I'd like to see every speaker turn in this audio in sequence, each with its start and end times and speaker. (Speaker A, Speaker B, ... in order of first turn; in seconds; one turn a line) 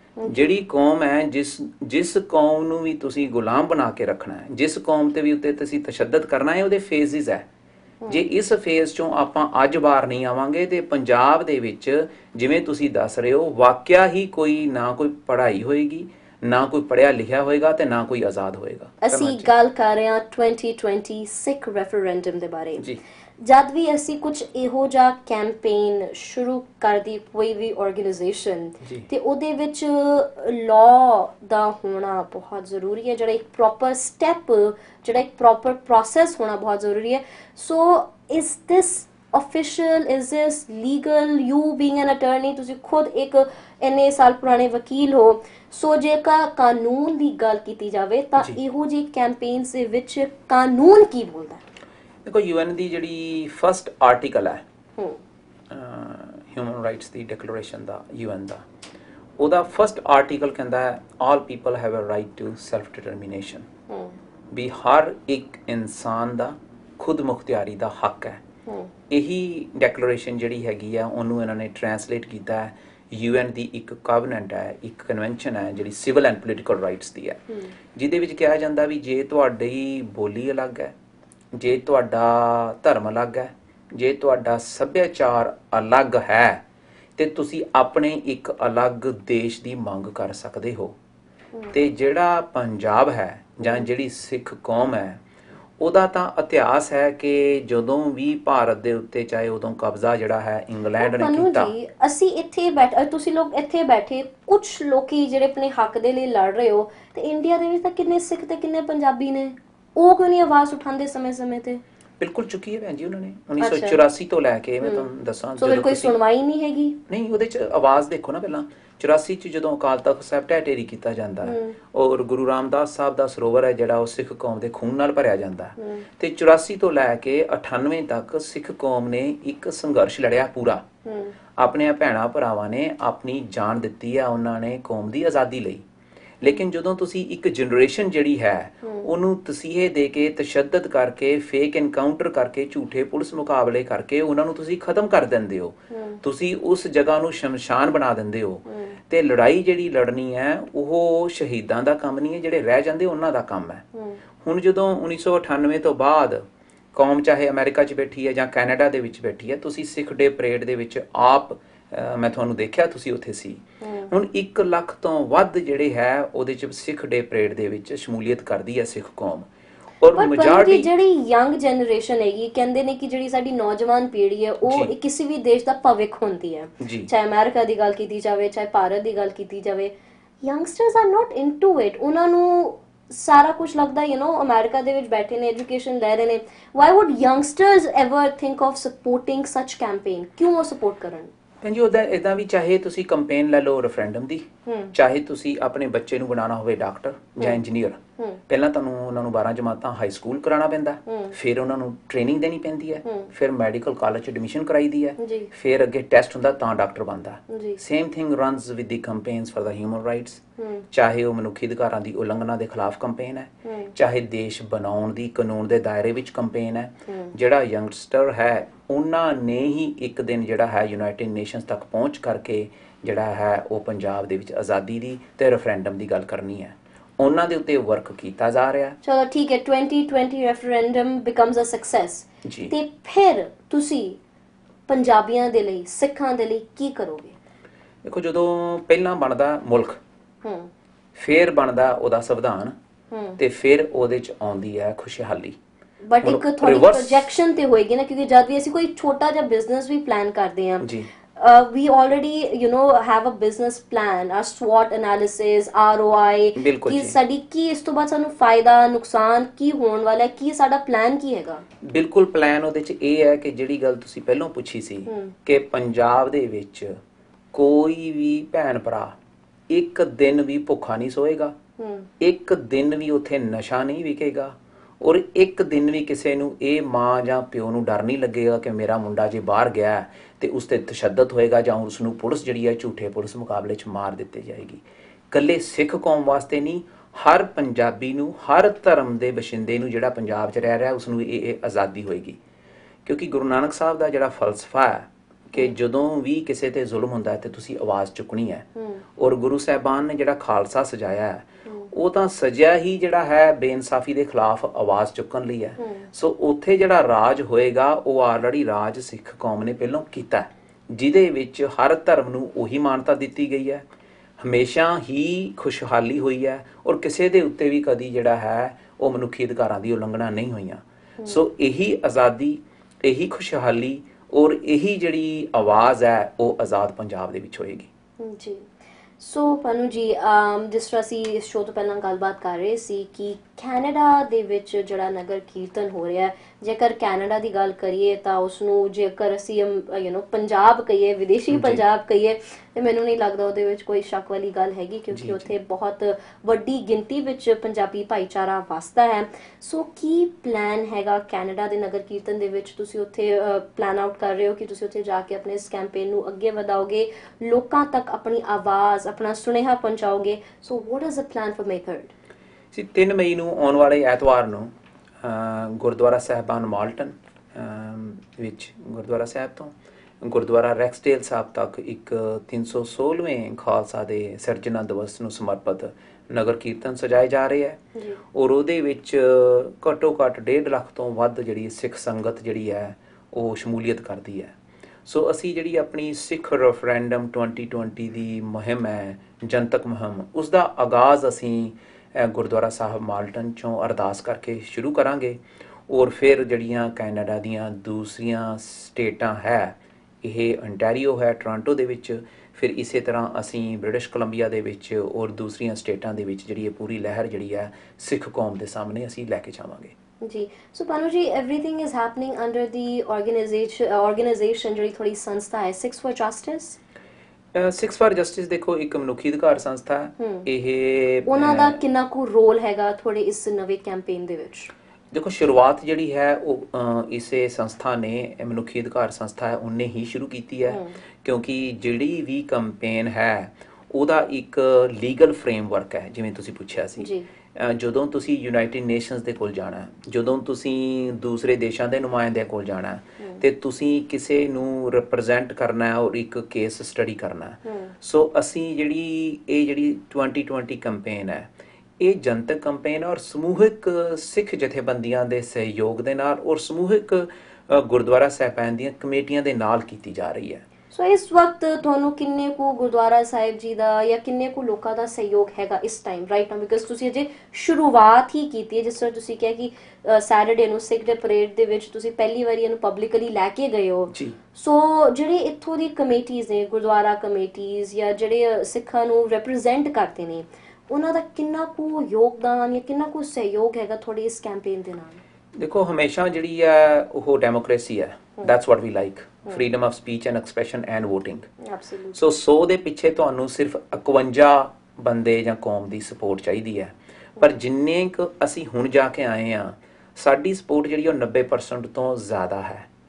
Speaker A: 0.2-0.5
Speaker B: 0.2-7.5
Speaker B: 8.1-19.5
Speaker A: 19.0-22.8
Speaker A: 23.4-51.6
Speaker B: 28.8-29.1
Speaker B: 52.2-54.6
Speaker B: 55.7-58.6
Speaker B: 59.4-63.7
Speaker A: 63.9-64.2
Speaker B: 64.5-68.4
Speaker A: 68.7-68.9
Speaker B: 69.1-77.4
Speaker B: 77.9-80.9
Speaker B: 81.5-86.6
Speaker B: 87.2-90.9
Speaker B: 91.7-95.2
Speaker B: 95.8-101.7
Speaker A: 101.0-111.8
Speaker B: 112.2-116.2
Speaker A: 113.6-114.0
Speaker A: 114.8-117.0
Speaker B: 117.1-130.8
Speaker A: 121.4-121.8
Speaker A: 125.8-126.0
Speaker A: 131.0-131.3
Speaker B: 131.5-135.8
Speaker B: 136.4-153.8
Speaker A: 138.8-139.1
Speaker A: 145.9-146.2
Speaker A: 148.7-149.0
Speaker A: 153.9-154.2
Speaker B: 154.4-169.5
Speaker A: 163.8-164.1
Speaker B: 170.0-170.9
Speaker A: 170.1-191.3
Speaker B: 174.7-174.9
Speaker B: 176.8-177.1
Speaker B: 191.6-229.0
Speaker A: 194.7-194.9
Speaker A: 201.1-201.3
Speaker A: 205.2-205.5
Speaker A: 207.5-207.8
Speaker A: 210.6-210.9
Speaker A: 213.6-213.9
Speaker A: 217.1-217.3
Speaker A: 229.0-234.2
Speaker B: 232.4-232.7
Speaker A: 234.9-237.3
Speaker B: 238.0-240.0
Speaker A: 240.4-240.7
Speaker B: 241.1-242.7
Speaker A: 243.1-243.4
Speaker B: 243.4-245.6
Speaker A: 246.0-261.6
Speaker B: 246.2-247.3
Speaker B: 250.8-251.1
Speaker B: 256.6-257.1
Speaker B: 261.8-266.9
Speaker A: 265.1-265.3
Speaker B: 267.5-269.1
Speaker B: 269.7-271.6
Speaker A: 271.8-272.1
Speaker B: 272.2-292.4
Speaker B: 293.0-298.6
Speaker A: 298.8-299.0
Speaker B: 299.2-313.9
Speaker A: 301.6-301.9
Speaker A: 305.8-306.1
Speaker B: 314.4-327.9
Speaker A: 321.2-321.4
Speaker A: 328.2-328.7
Speaker A: 329.2-362.1
Speaker B: 341.5-341.8
Speaker B: 345.1-345.5
Speaker B: 362.7-377.8
Speaker A: 377.9-378.2
Speaker B: 378.3-384.5
Speaker B: 385.0-409.9
Speaker A: 410.2-416.8
Speaker B: 417.5-421.8
Speaker A: 420.2-420.5
Speaker A: 421.2-424.7
Speaker B: 425.1-460.6
Speaker A: 430.7-431.0
Speaker A: 437.0-437.3
Speaker A: 447.6-447.9
Speaker A: 460.9-485.2
Speaker B: 485.6-491.5
Speaker A: 491.6-492.2
Speaker B: 492.1-502.9